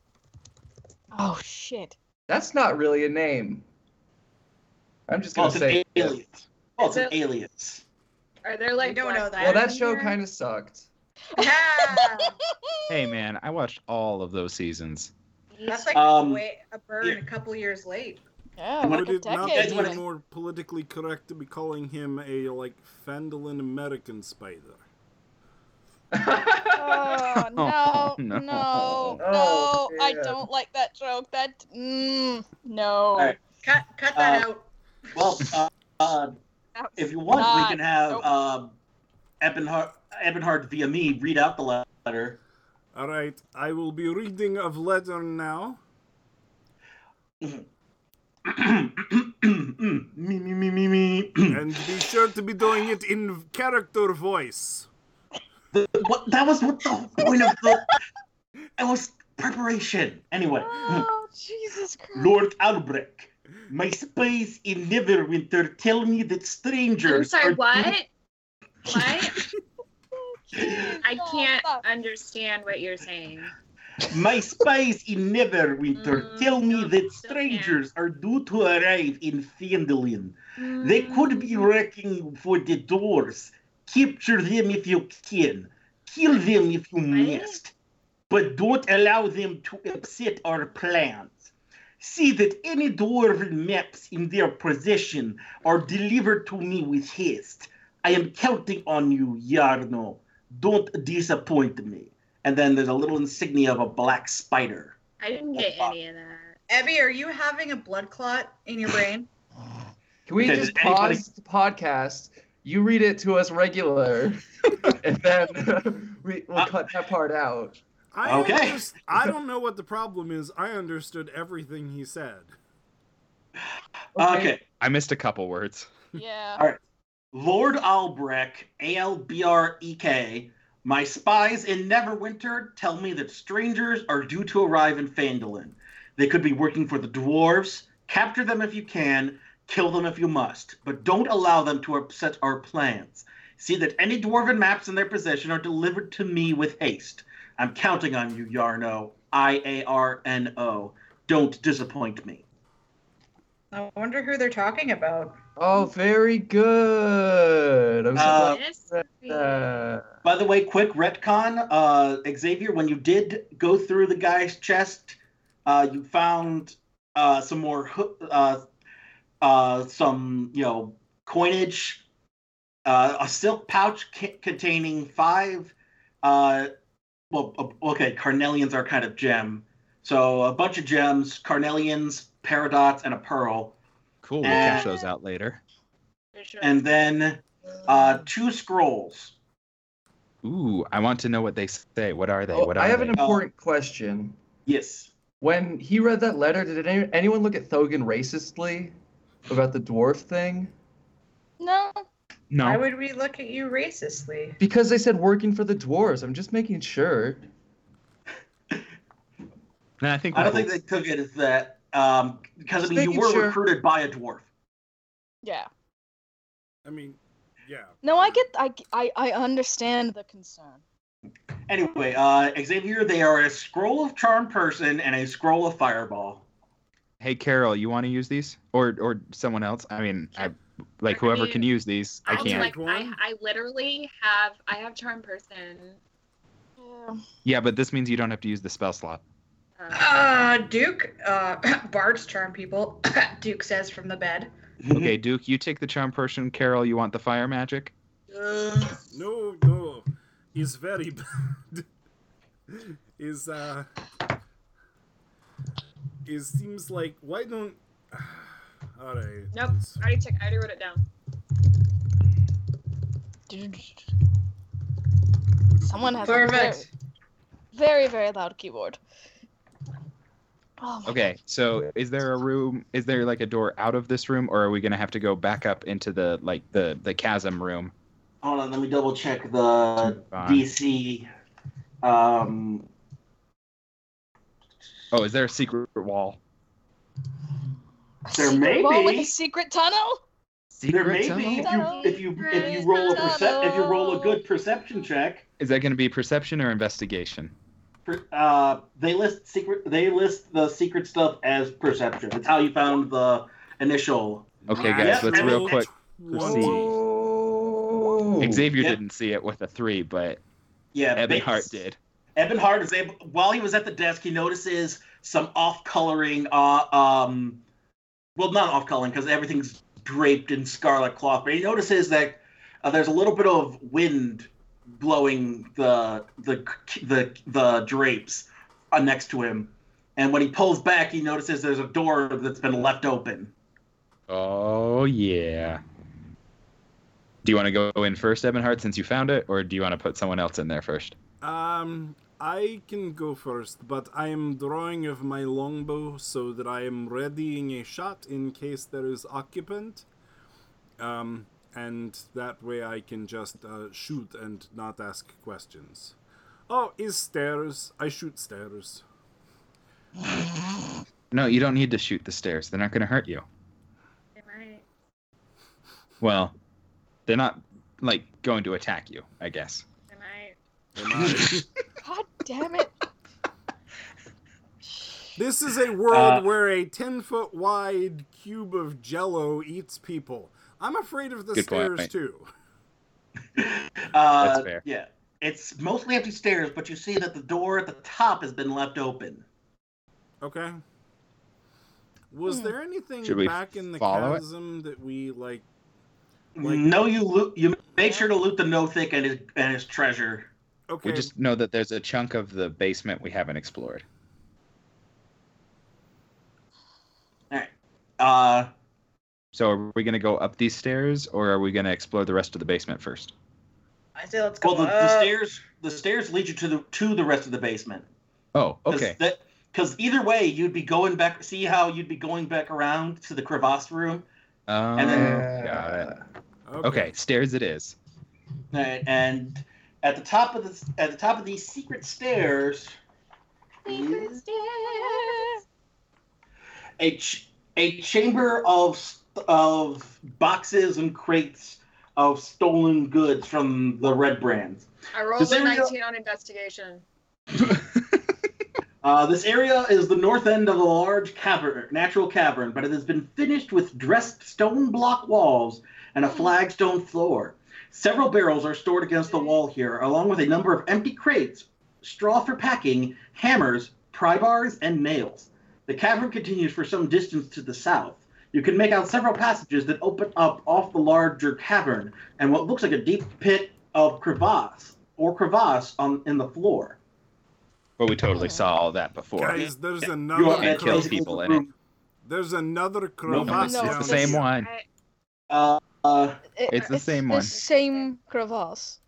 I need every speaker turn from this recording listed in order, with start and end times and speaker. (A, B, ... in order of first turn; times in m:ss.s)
0:01.1-0:02.0 A
0:02.3-0:03.6 B
0:05.1-0:06.2 B
0:05.3-0:07.8 C
0:06.8-0:07.2 D
0:08.4-0:10.0 D
0:08.8-0:10.1 E
0:09.4-0:10.9 B
0:11.4-0:12.4 E
0:11.4-0:12.9 A
0:12.9-0:15.1 F
0:15.5-0:16.0 D
0:15.7-0:18.2 E
0:15.9-0:16.4 C
0:18.6-0:20.0 A
0:18.8-0:24.8 G
0:18.8-0:20.0 C
0:26.1-0:27.2 B
0:26.7-0:33.4 A
0:27.5-0:29.2 F
0:29.2-0:30.4 B
0:33.6-0:34.6 E
0:34.1-0:34.4 C
0:35.1-0:36.3 C
0:36.8-0:38.3 A
0:37.0-0:38.7 C
0:39.4-0:42.4 C
0:42.9-0:45.8 G
0:47.4-0:47.6 C
0:48.4-0:51.6 C
0:51.5-0:54.9 G
0:55.7-0:57.9 C
0:57.5-0:57.9 A
0:58.8-1:01.1 C
1:00.6-1:02.3 A
1:02.1-1:07.9 C
1:07.0-1:08.1 D
1:08.9-1:09.4 D
1:10.5-1:11.8 A
1:11.0-1:13.5 D
1:14.1-1:27.7 C
1:16.0-1:17.8 D
1:20.6-1:21.7 D
1:27.1-1:27.6 D
1:28.3-1:45.0 C
1:45.2-1:46.6 D
1:45.6-1:45.9 C
1:46.7-1:49.3 E
1:50.2-1:57.8 B
1:50.4-1:51.2 C
1:58.1-2:02.5 G
1:58.2-1:58.8 C
2:04.2-2:04.6 B
2:04.2-2:04.6 C
2:04.8-2:05.9 F
2:06.1-2:06.6 A
2:07.3-2:32.4 C
2:33.7-2:35.4 E
2:35.6-2:40.1 B
2:38.1-2:38.6 C
2:38.2-2:39.7 D
2:40.2-2:48.6 C
2:49.4-2:52.0 C
2:52.8-2:56.7 C
2:57.3-3:03.7 C
3:04.2-3:05.6 F
3:04.4-3:04.9 C
3:04.5-3:04.9 D
3:06.3-3:07.1 D
3:06.6-3:09.3 C
3:10.4-3:13.2 F
3:12.5-3:14.4 B
3:13.2-3:13.4 C
3:14.6-3:15.1 C
3:15.4-3:18.9 B
3:19.5-3:20.7 B
3:21.6-3:22.0 A
3:22.5-3:22.8 F
3:22.6-3:24.6 E
3:24.6-3:27.5 B
3:30.0-3:30.7 F
3:30.3-3:34.4 C
3:32.8-3:33.6 B
3:35.4-3:35.7 A
3:36.8-3:38.4 G
3:38.0-3:40.8 A
3:41.7-3:46.4 C
3:47.2-3:52.7 F
3:51.1-3:51.7 D
3:52.2-3:56.0 D
3:52.3-3:53.2 G
3:56.8-3:57.2 A
3:57.4-3:59.2 F
3:59.8-4:00.4 D
3:59.9-4:04.5 E
4:04.8-4:05.2 C
4:04.9-4:07.9 F
4:08.3-4:09.0 E
4:09.1-4:11.8 G
4:12.7-4:13.9 G
4:16.2-4:20.0 G
4:19.5-4:21.0 D
4:23.5-4:24.0 A
4:25.7-4:26.7 G
4:25.8-4:26.9 A
4:26.2-4:26.9 E
4:27.7-4:29.0 A
4:30.8-4:31.2 A
4:31.0-4:37.9 F
4:38.4-4:41.3 C
4:40.0-4:40.6 F
4:42.0-4:42.9 C
4:45.1-4:46.4 F
4:48.2-4:50.2 A
4:48.3-4:49.3 C
4:50.8-4:51.7 F
4:50.9-4:55.4 C
4:51.5-4:54.4 A
4:51.8-4:53.7 D
4:55.6-4:57.5 F
4:58.0-5:05.8 C
5:04.6-5:06.9 G
5:04.7-5:06.8 F
5:06.3-5:08.7 B
5:08.4-5:10.4 F
5:10.9-5:11.7 C
5:11.2-5:12.0 F
5:12.4-5:17.6 C
5:18.4-5:33.5 C
5:34.3-5:35.8 F
5:37.4-5:41.1 F
5:41.4-5:50.0 G
5:51.0-5:56.1 G
5:56.7-5:59.0 G
6:01.3-6:03.4 F
6:04.4-6:04.8 D
6:06.2-6:06.5 F
6:07.3-6:09.8 F
6:10.1-6:10.6 D
6:11.0-6:11.6 G
6:11.1-6:11.4 C
6:12.0-6:12.9 A
6:15.4-6:22.5 G
6:16.1-6:16.4 C
6:21.5-6:22.1 F
6:23.6-6:29.4 C
6:24.4-6:24.8 F
6:30.4-6:30.8 G
6:32.3-6:35.6 G
6:32.4-6:32.7 A
6:33.2-6:34.4 F
6:36.6-6:40.5 C
6:36.6-6:37.0 G
6:40.9-6:41.3 G
6:41.0-6:44.0 F
6:47.5-6:48.7 C
6:49.5-6:53.3 F
6:54.2-6:55.3 E
6:54.6-6:58.0 C
6:58.5-6:59.2 F
6:58.9-7:04.2 C
7:04.7-7:06.1 F
7:04.9-7:05.5 C
7:05.1-7:06.2 B
7:06.7-7:07.1 G
7:06.8-7:07.9 F
7:08.7-7:13.0 C
7:13.8-7:15.6 D
7:13.9-7:14.4 C
7:15.0-7:15.3 A
7:17.0-7:24.9 C
7:25.1-7:27.0 D
7:25.4-7:25.9 C
7:29.0-7:57.0 C
7:39.3-7:39.6 D
7:58.0-7:59.6 F
7:58.3-7:58.6 A
7:59.3-8:01.4 G
8:00.3-8:01.7 C
8:00.5-8:01.6 F
8:02.2-8:04.5 G
8:03.3-8:04.2 C
8:03.4-8:04.4 A
8:03.8-8:04.7 F
8:04.3-8:04.8 D
8:05.5-8:06.4 C
8:06.6-8:09.0 A
8:06.7-8:07.5 F
8:07.5-8:08.1 D